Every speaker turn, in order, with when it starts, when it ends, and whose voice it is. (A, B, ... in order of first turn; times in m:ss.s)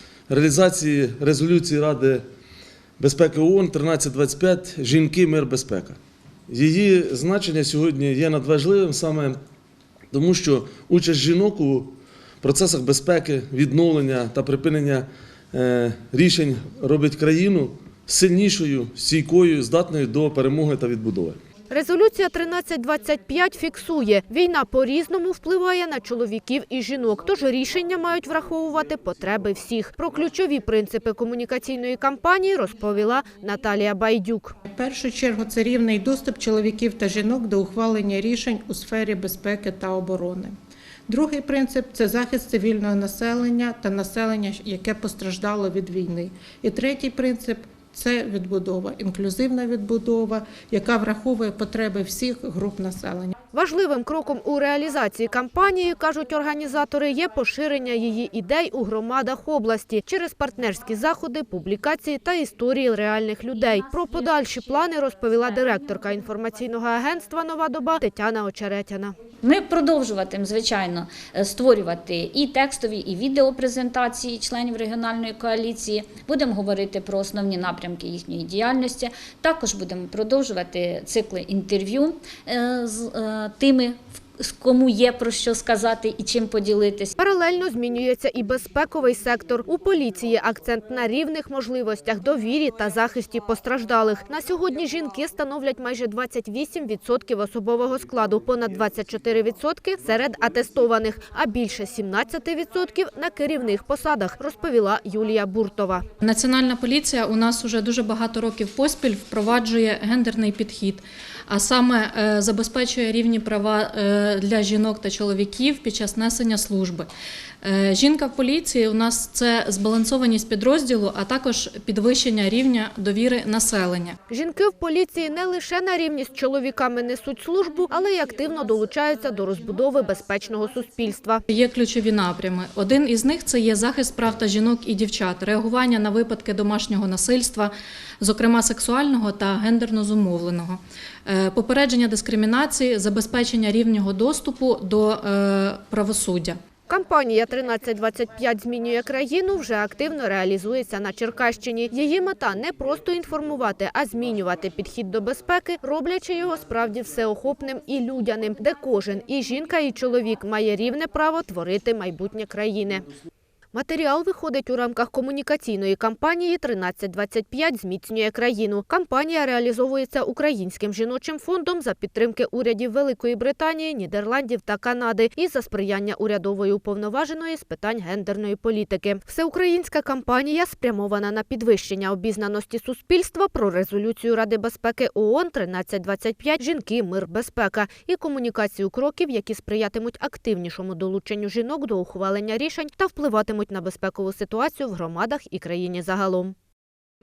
0:00.3-0:02.2 A
0:03.0-0:06.0 A
0:06.5-0:09.4 A
0:10.1-0:21.4 A
0:21.7-0:34.6 B
0:34.6-0:40.5 C
0:41.1-0:53.3 C
0:53.5-1:09.1 B
1:09.4-1:27.1 D
1:27.2-1:46.0 B
1:46.2-1:57.1 E
1:57.6-2:04.2 E
2:04.3-2:11.4 B
2:11.5-2:26.6 E
2:26.9-2:43.0 B
2:43.7-3:16.5 B